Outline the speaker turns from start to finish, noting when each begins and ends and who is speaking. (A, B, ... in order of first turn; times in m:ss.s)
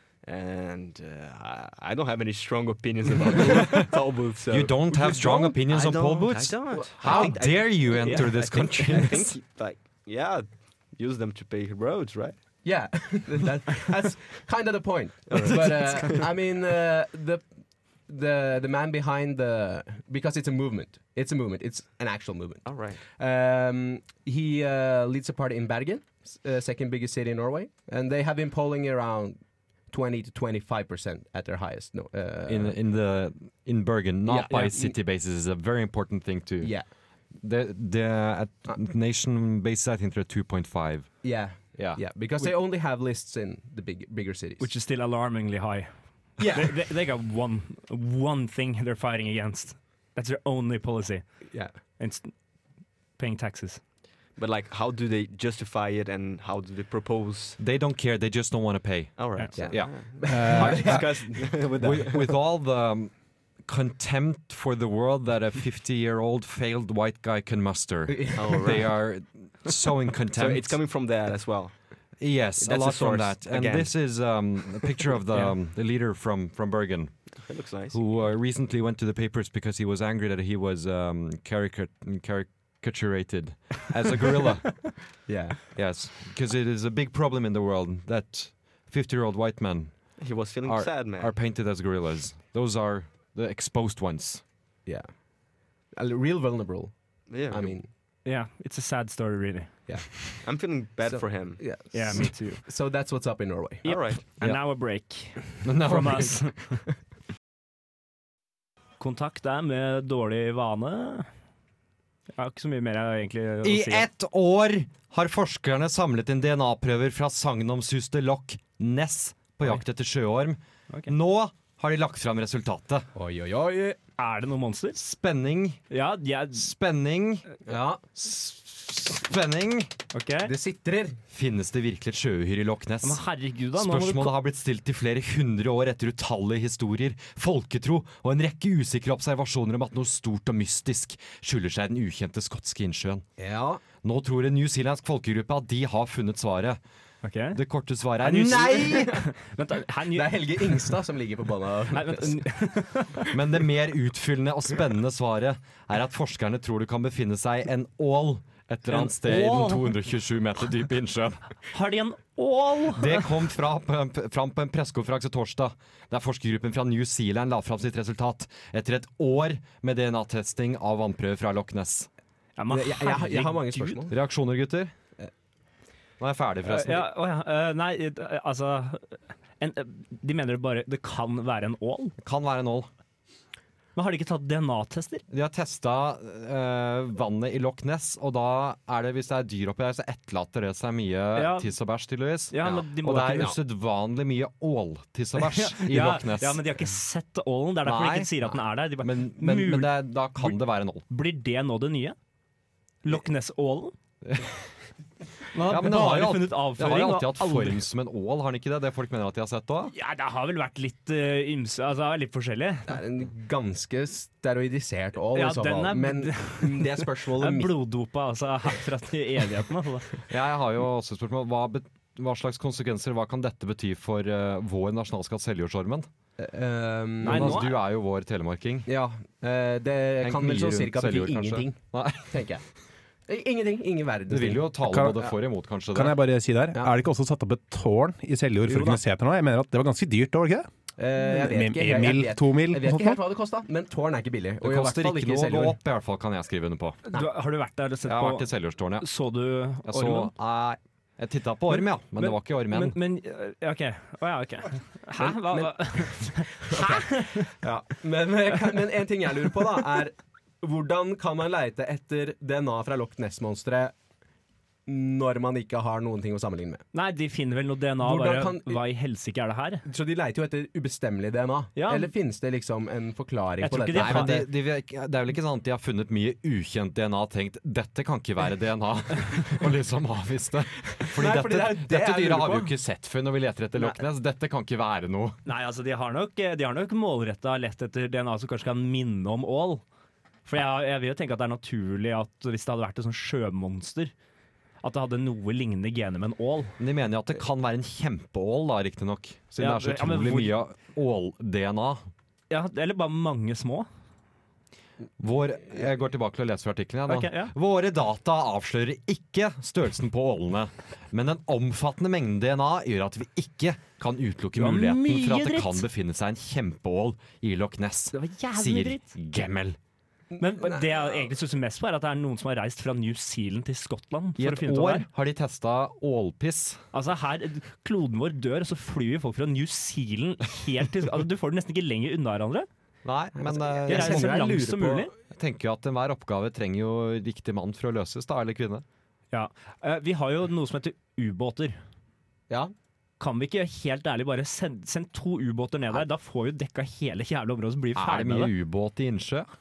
0:00.2-0:12.6 A
0:04.5-0:09.4 B
0:06.7-0:07.4 C
0:12.6-0:32.8 C
0:15.3-0:16.2 A
0:22.6-0:23.0 A
0:32.5-0:36.8 B
0:34.2-0:35.0 C
0:36.6-0:36.9 C
0:37.4-0:42.0 B
0:41.2-0:44.7 C
0:44.6-0:53.8 D
0:46.4-0:46.8 C
0:51.5-0:51.8 C
0:54.4-0:57.6 A
0:57.6-1:10.8 B
0:59.2-1:02.3 A
0:59.6-1:01.7 C
1:00.3-1:01.0 E
1:08.1-1:08.8 C
1:08.4-1:08.9 A
1:10.3-1:12.0 A
1:12.2-1:25.2 B
1:12.6-1:14.5 A
1:17.4-1:18.0 A
1:25.2-1:25.6 C
1:25.7-1:34.4 B
1:30.2-1:31.3 A
1:34.8-1:37.9 C
1:37.3-1:37.8 A
1:38.2-1:39.9 D
1:39.9-1:43.9 C
1:40.4-1:41.6 A
1:41.9-1:42.6 D
1:43.8-1:46.9 D
1:43.8-1:44.2 A
1:45.6-1:46.5 B
1:49.0-1:51.3 D
1:52.4-1:54.0 D
1:53.6-2:03.1 B
2:03.1-2:04.0 C
2:04.2-2:05.0 D
2:04.9-2:05.8 B
2:05.9-2:06.7 D
2:06.5-2:07.5 B
2:07.6-2:08.0 C
2:08.1-2:09.9 B
2:10.1-2:10.5 D
2:10.4-2:11.2 C
2:11.3-2:23.2 B
2:13.0-2:14.3 D
2:23.4-2:23.8 C
2:24.0-2:26.8 B
2:27.2-2:27.6 D
2:27.5-2:29.2 B
2:28.2-2:30.9 D
2:28.9-2:29.2 C
2:30.1-2:32.4 C
2:31.9-2:33.3 D
2:33.3-2:41.5 B
2:38.9-2:39.9 D
2:41.7-2:43.3 D
2:42.9-2:52.1 B
2:52.6-2:54.0 D
2:52.7-2:54.2 C
2:54.1-2:54.9 B
2:56.2-2:57.1 B
2:56.6-3:02.1 D
3:02.2-3:02.9 B
3:03.9-3:05.2 D
3:05.3-3:16.6 B
3:11.3-3:11.7 D
3:12.5-3:13.5 D
3:15.4-3:20.6 D
3:17.8-3:21.0 B
3:21.1-3:22.2 D
3:23.0-3:23.9 D
3:24.2-3:24.6 B
3:25.5-3:27.8 D
3:25.6-3:29.9 B
3:29.9-3:33.0 D
3:32.9-3:37.7 C
3:35.3-3:40.2 D
3:40.3-3:46.1 B
3:46.4-3:47.6 C
3:47.2-3:47.8 D
3:47.2-3:48.9 B
3:48.9-3:52.6 C
3:50.2-3:52.4 B
3:53.3-3:54.7 C
3:54.3-3:56.2 B
3:54.8-3:55.2 E
3:55.9-4:03.2 E
3:58.6-3:59.0 C
4:01.0-4:05.8 C
4:04.6-4:07.0 B
4:07.1-4:08.5 D
4:08.0-4:09.1 B
4:09.0-4:10.3 D
4:09.8-4:13.0 B
4:11.8-4:17.5 D
4:15.2-4:23.9 C
4:24.9-4:26.8 C
4:26.9-4:29.8 D
4:28.0-4:28.8 C
4:29.9-4:34.5 C
4:31.8-4:32.1 D
4:33.6-4:34.4 D
4:33.9-4:45.4 B
4:40.9-4:42.7 C
4:45.4-4:49.8 D
4:50.4-4:54.1 D
4:54.8-4:56.8 D
4:56.8-5:02.0 B
4:59.6-5:00.5 D
5:02.5-5:03.9 D
5:05.2-5:19.8 B
5:07.1-5:07.5 D
5:14.6-5:15.8 D
5:18.1-5:19.1 D
5:20.4-5:20.8 C
5:20.4-5:25.0 D
5:24.4-5:26.8 B
5:26.9-5:32.7 D
5:33.0-5:34.5 B
5:33.4-5:35.1 C
5:33.9-5:35.1 D
5:35.3-5:38.8 B
5:39.3-5:41.8 D
5:43.2-5:48.5 D
5:47.9-5:49.5 B